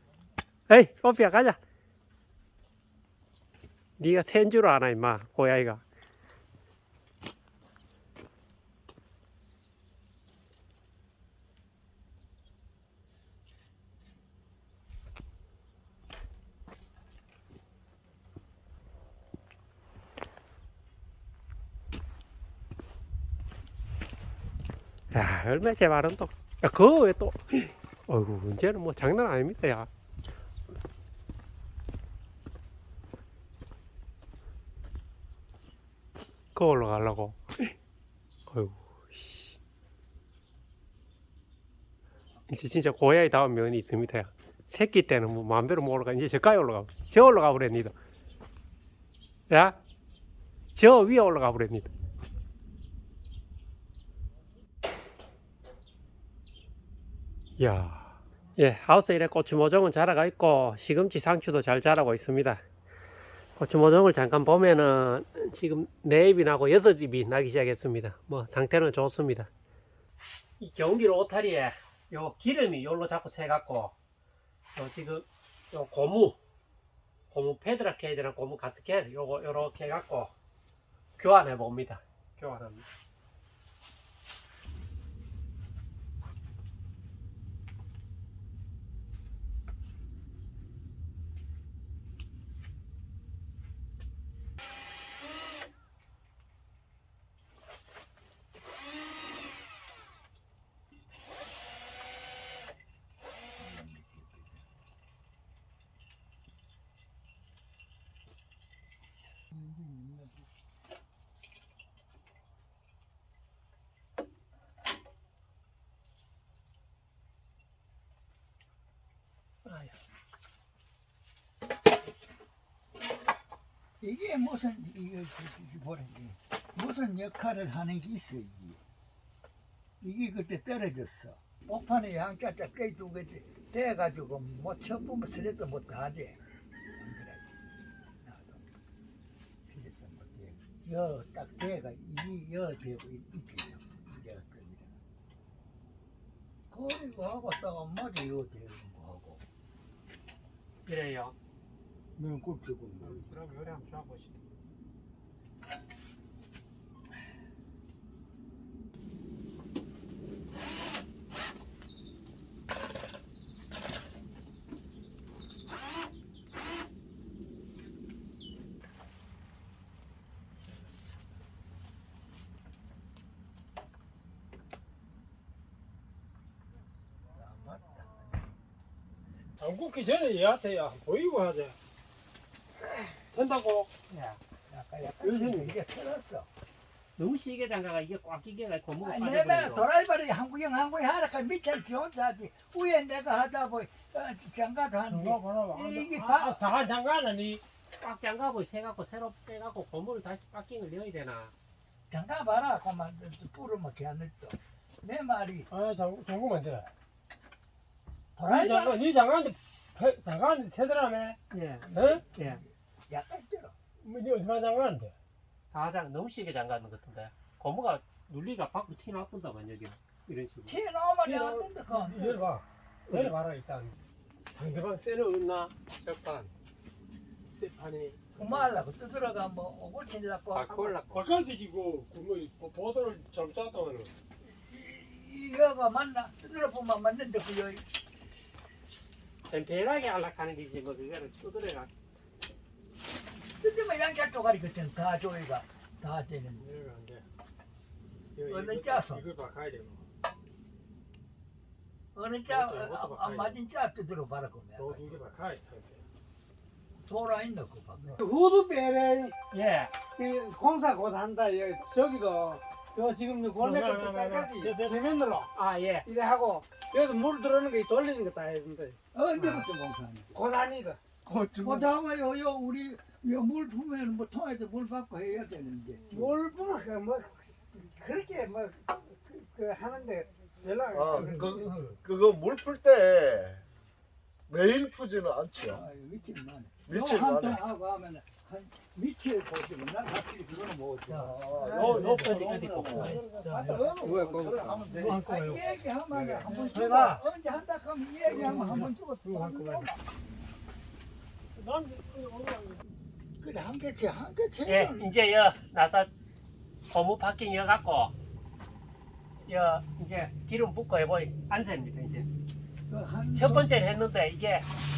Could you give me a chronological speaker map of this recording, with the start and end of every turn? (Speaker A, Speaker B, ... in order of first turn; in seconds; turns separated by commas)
Speaker A: 0.7-1.6, Speaker A: 4.0-5.8, Speaker A: 25.1-29.9, Speaker A: 36.5-37.7, Speaker A: 38.5-39.6, Speaker A: 42.5-47.9, Speaker A: 49.5-49.8, Speaker A: 50.8-51.9, Speaker A: 57.6-62.6, Speaker A: 63.6-69.5, Speaker A: 70.6-73.9, Speaker A: 74.8-76.4, Speaker A: 77.3-80.3, Speaker A: 81.2-82.8, Speaker B: 103.6-104.6, Speaker B: 109.5-110.4, Speaker A: 119.7-120.0, Speaker B: 124.0-128.8, Speaker B: 130.0-136.4, Speaker B: 137.0-138.7, Speaker B: 139.7-144.9, Speaker B: 146.7-149.4, Speaker A: 150.9-151.3, Speaker B: 152.2-153.2, Speaker A: 153.0-154.4, Speaker B: 177.3-178.4, Speaker C: 179.6-181.8, Speaker C: 183.0-183.9, Speaker A: 184.1-184.4, Speaker B: 184.7-186.5, Speaker C: 185.2-185.7, Speaker A: 187.2-189.9, Speaker B: 189.0-196.7, Speaker C: 195.1-197.6, Speaker A: 198.0-201.5, Speaker B: 202.1-205.7, Speaker C: 205.7-206.9, Speaker B: 208.4-209.0, Speaker C: 208.5-212.2, Speaker A: 211.5-212.6, Speaker B: 212.0-213.8, Speaker C: 214.0-215.1, Speaker A: 215.7-220.8, Speaker B: 220.7-222.5, Speaker C: 221.2-223.9, Speaker A: 223.1-223.4, Speaker C: 224.5-226.5, Speaker C: 227.5-228.6, Speaker B: 228.4-231.0, Speaker A: 230.5-231.2, Speaker C: 231.1-234.1, Speaker B: 234.4-237.8, Speaker A: 239.5-241.9, Speaker B: 243.6-246.7, Speaker C: 246.6-247.2, Speaker C: 248.4-250.0, Speaker B: 248.5-249.3, Speaker B: 252.2-255.2, Speaker C: 252.5-253.6, Speaker C: 254.8-256.0, Speaker B: 257.0-258.2, Speaker D: 258.2-259.4, Speaker A: 259.5-260.0, Speaker D: 260.0-265.5, Speaker C: 263.6-265.2, Speaker A: 265.6-266.1, Speaker D: 266.1-269.0, Speaker B: 269.1-270.4, Speaker D: 270.3-271.0, Speaker B: 271.4-276.2, Speaker D: 276.1-281.9, Speaker E: 282.3-283.4, Speaker E: 284.7-285.5, Speaker B: 285.6-291.6, Speaker C: 291.6-297.2, Speaker A: 291.7-293.2, Speaker D: 293.6-295.0, Speaker B: 295.0-300.0, Speaker C: 298.3-299.9, Speaker C: 301.6-302.8, Speaker B: 303.4-305.1, Speaker A: 304.7-306.1, Speaker A: 306.9-308.1, Speaker A: 309.4-312.3, Speaker B: 312.9-313.7, Speaker A: 313.3-314.7